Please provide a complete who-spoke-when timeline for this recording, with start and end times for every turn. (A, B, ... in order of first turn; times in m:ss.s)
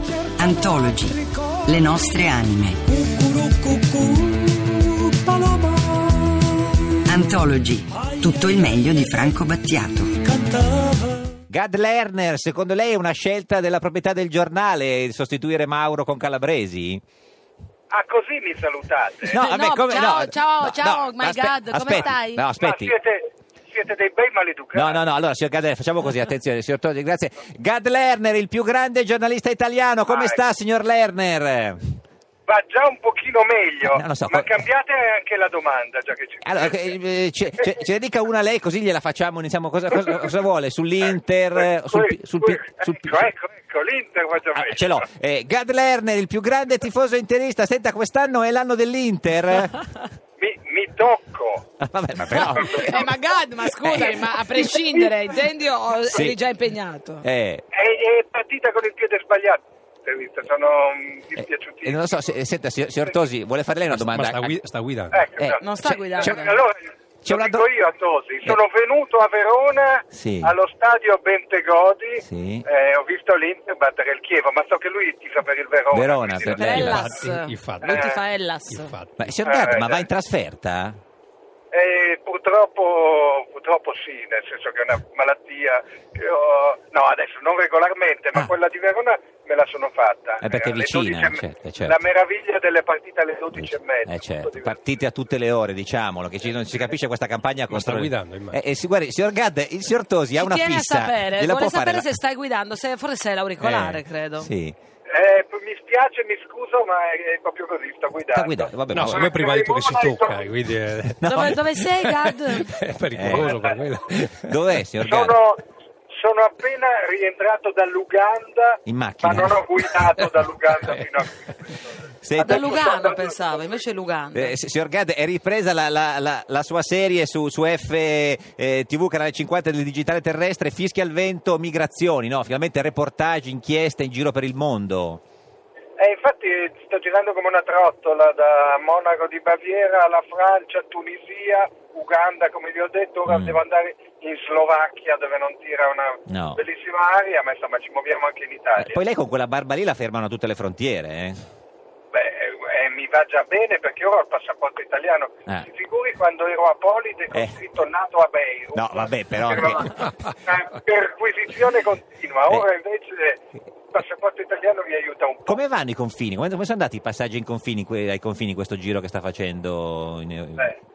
0:00.4-0:03.3 A
0:07.1-0:10.6 A
0:11.5-0:17.0 B
0:17.9-0:19.4 C
0:19.3-0:22.9 B
0:19.4-0:22.5 D
0:22.6-0:25.0 C
0:24.7-0:32.0 B
0:30.1-0:30.4 C
0:32.5-0:36.8 C
0:33.8-0:34.5 B
0:36.4-0:43.3 B
0:41.6-0:45.0 C
0:44.5-0:49.8 B
0:50.4-0:51.7 C
0:51.8-0:53.1 B
0:52.3-0:57.2 D
0:52.6-0:53.0 C
0:53.8-0:54.2 B
0:54.9-0:55.4 C
0:56.1-0:56.4 B
0:57.2-0:57.6 B
0:57.7-1:02.3 C
1:01.4-1:04.6 B
1:03.9-1:05.3 E
1:05.1-1:05.7 C
1:05.4-1:06.5 B
1:05.6-1:06.6 D
1:06.3-1:16.8 C
1:07.2-1:07.7 B
1:10.1-1:10.5 B
1:12.2-1:12.7 B
1:15.9-1:17.1 B
1:16.5-1:19.0 D
1:16.6-1:18.2 E
1:17.8-1:18.2 C
1:18.7-1:19.3 E
1:19.2-1:21.0 B
1:19.4-1:20.0 C
1:21.7-1:34.8 C
1:30.4-1:32.0 B
1:33.6-1:42.1 B
1:37.7-1:38.6 E
1:40.4-1:44.5 D
1:43.6-1:44.8 B
1:45.1-1:50.6 C
1:48.3-1:49.3 B
1:48.9-1:54.8 E
1:51.2-1:51.6 B
1:51.3-1:52.7 D
1:53.1-1:53.5 B
1:53.3-1:53.9 C
1:54.5-1:55.4 B
1:55.0-2:03.8 C
1:58.9-2:00.1 B
2:02.2-2:02.8 B
2:02.4-2:04.5 D
2:04.3-2:15.2 B
2:16.0-2:29.0 C
2:23.3-2:23.6 B
2:26.3-2:26.6 B
2:28.8-2:31.4 B
2:32.1-2:43.4 C
2:38.7-2:40.1 B
2:43.9-2:45.6 C
2:45.5-2:50.7 B